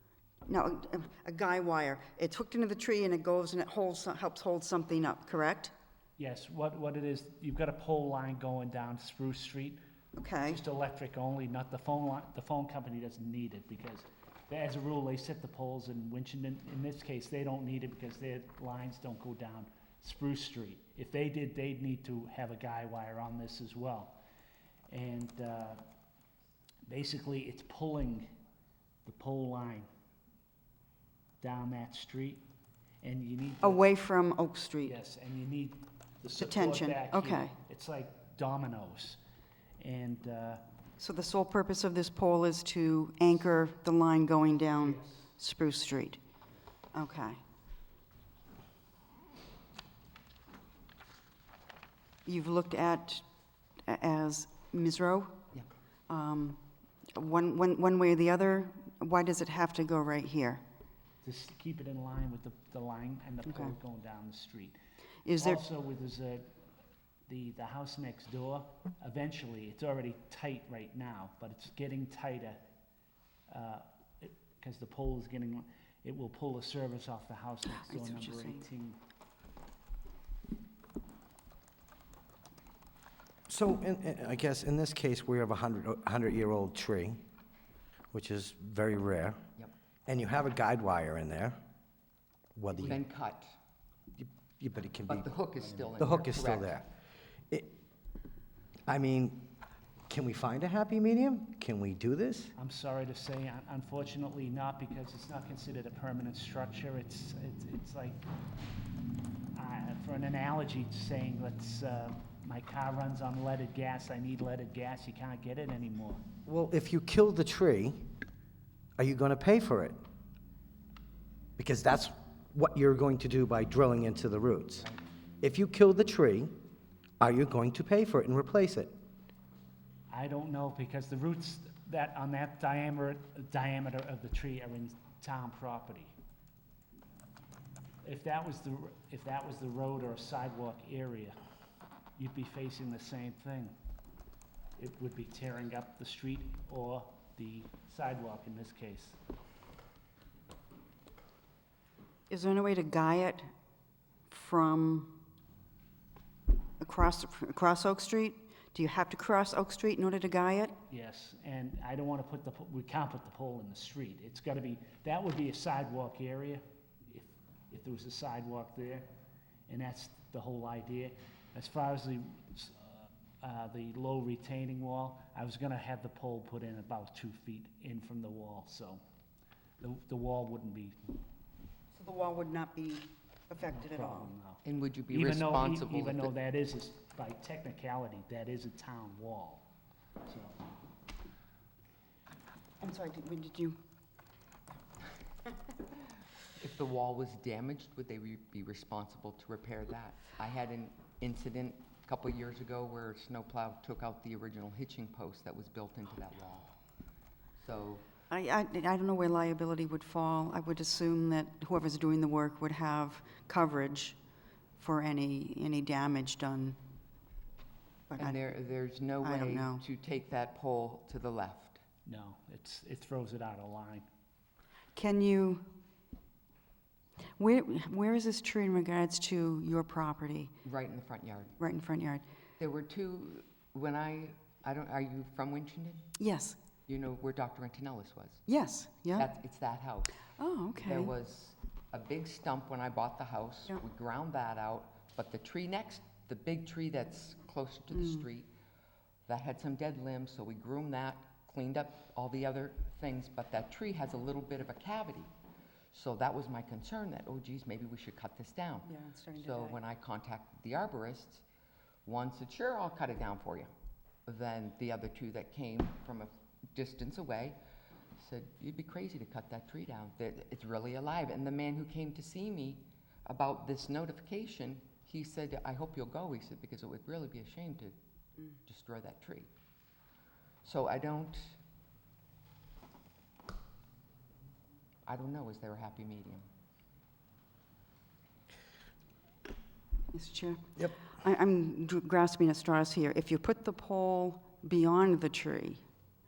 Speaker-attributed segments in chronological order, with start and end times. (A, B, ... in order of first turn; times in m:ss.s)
0:00.5-0:05.7 A
0:06.2-0:09.8 B
0:10.2-0:10.6 A
0:10.4-0:24.2 B
0:24.9-0:25.8 B
0:26.9-0:28.3 B
0:29.0-0:29.9 B
0:31.4-0:32.4 B
0:33.0-0:33.8 B
0:33.6-0:35.0 A
0:34.8-0:39.2 B
0:36.4-0:37.5 A
0:39.8-0:40.6 B
0:41.0-0:46.2 A
0:44.8-0:45.2 B
0:46.9-0:47.4 A
0:52.2-0:53.2 A
0:53.8-0:55.3 A
0:56.1-0:56.6 A
0:57.1-1:00.6 A
1:01.2-1:04.8 B
1:03.5-1:03.7 A
1:05.2-1:05.6 A
1:05.4-1:06.5 B
1:07.3-1:12.6 B
1:13.5-1:19.0 B
1:17.6-1:18.6 A
1:23.5-1:27.2 C
1:28.1-1:29.4 C
1:30.0-1:31.6 C
1:32.6-1:33.0 C
1:32.8-1:33.5 D
1:34.2-1:35.3 C
1:35.1-1:36.8 D
1:35.9-1:36.8 C
1:38.9-1:39.5 C
1:40.1-1:42.5 C
1:42.6-1:48.2 B
1:49.5-1:56.2 B
1:56.4-1:58.1 C
1:59.0-2:00.0 C
2:01.6-2:04.9 C
2:05.4-2:06.5 C
2:07.2-2:08.9 C
2:10.1-2:16.1 B
2:18.0-2:21.4 B
2:22.2-2:23.7 B
2:24.8-2:29.2 B
2:32.3-2:33.5 A
2:34.3-2:35.1 A
2:36.8-2:40.8 A
2:40.9-2:49.1 B
2:49.7-2:59.0 B
2:59.8-3:01.0 B
3:01.9-3:04.3 A
3:03.7-3:09.7 B
3:04.6-3:06.3 D
3:10.2-3:10.6 B
3:12.8-3:13.8 A
3:16.6-3:26.7 D
3:27.6-3:28.0 D
3:28.3-3:34.2 A
3:34.8-3:36.8 A
3:38.1-3:38.4 A
3:38.2-3:41.8 D
3:39.2-3:39.8 A
3:42.0-3:44.1 B
3:44.9-3:45.6 A
3:47.4-3:50.5 A
3:50.6-3:51.5 D
3:51.6-3:52.2 A
3:52.6-3:56.1 D
3:56.2-3:56.6 A
3:56.9-3:58.4 D
3:58.4-3:59.3 A
3:59.2-4:00.2 D
4:00.4-4:01.1 A
4:00.8-4:08.5 D
4:07.9-4:08.2 A
4:09.3-4:15.3 D
4:15.9-4:21.4 D
4:18.8-4:19.8 A
4:22.0-4:23.7 D
4:24.2-4:27.6 D
4:28.2-4:38.0 D
4:38.6-4:39.5 D
4:40.6-4:41.6 D
4:45.1-4:46.5 D
4:50.1-4:55.8 A